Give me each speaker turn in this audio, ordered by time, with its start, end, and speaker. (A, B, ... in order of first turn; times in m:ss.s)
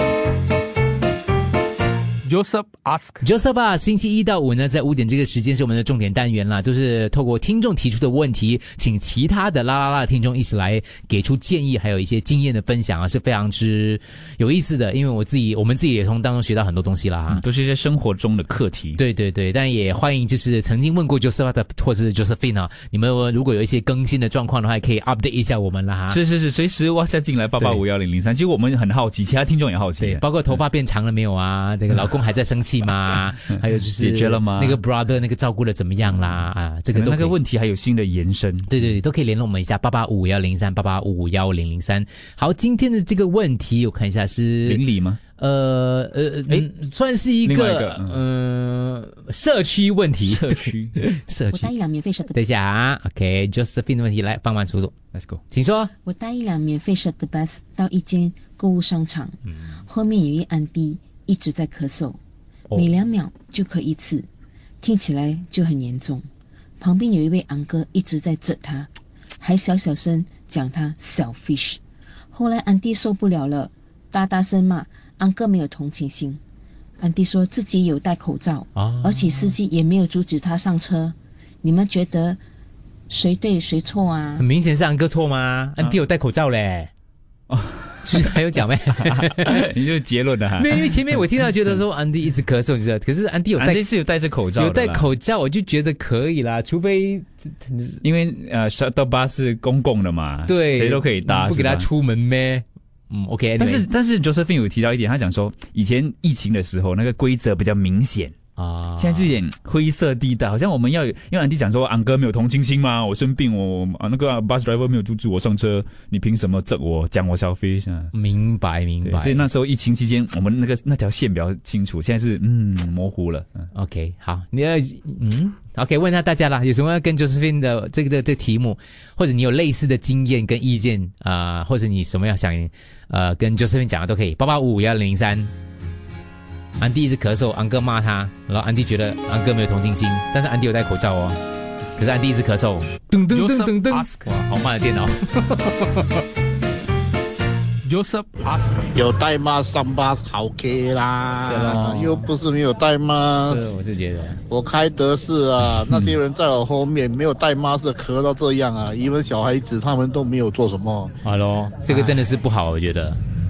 0:02.2-0:03.2 A
0:03.2-0:17.4 B
0:17.3-0:19.0 C
0:19.0-0:26.2 B
0:26.1-0:30.2 C
0:30.0-0:37.3 B
0:34.0-0:34.8 C
0:36.9-0:39.0 C
0:38.7-0:44.8 B
0:44.7-0:45.2 C
0:45.4-0:51.7 B
0:47.4-0:48.2 C
0:50.3-0:51.0 C
0:51.5-0:52.4 D
0:52.3-0:54.9 B
0:55.1-0:55.4 C
0:55.5-0:55.9 B
0:56.0-1:02.2 D
1:02.7-1:04.3 D
1:04.8-1:06.3 D
1:06.8-1:08.9 D
1:09.4-1:11.8 D
1:12.3-1:16.4 D
1:17.0-1:22.4 D
1:18.8-1:19.5 B
1:23.1-1:24.4 D
1:24.4-1:26.9 B
1:27.5-1:28.3 C
1:28.1-1:29.7 B
1:29.0-1:31.2 C
1:30.6-1:33.8 B
1:33.6-1:35.2 C
1:34.6-1:38.0 B
1:38.0-1:41.9 C
1:40.5-1:43.9 B
1:43.6-1:48.4 C
1:48.6-1:49.3 B
1:49.0-1:58.1 C
1:58.1-1:59.4 B
1:59.0-2:03.7 C
2:03.7-2:15.5 B
2:16.8-2:21.4 B
2:22.0-2:26.2 B
2:23.3-2:24.3 A
2:27.8-2:28.9 A
2:29.0-2:33.7 E
2:31.4-2:32.2 B
2:33.5-2:34.4 B
2:34.5-2:41.1 E
2:41.2-2:43.2 B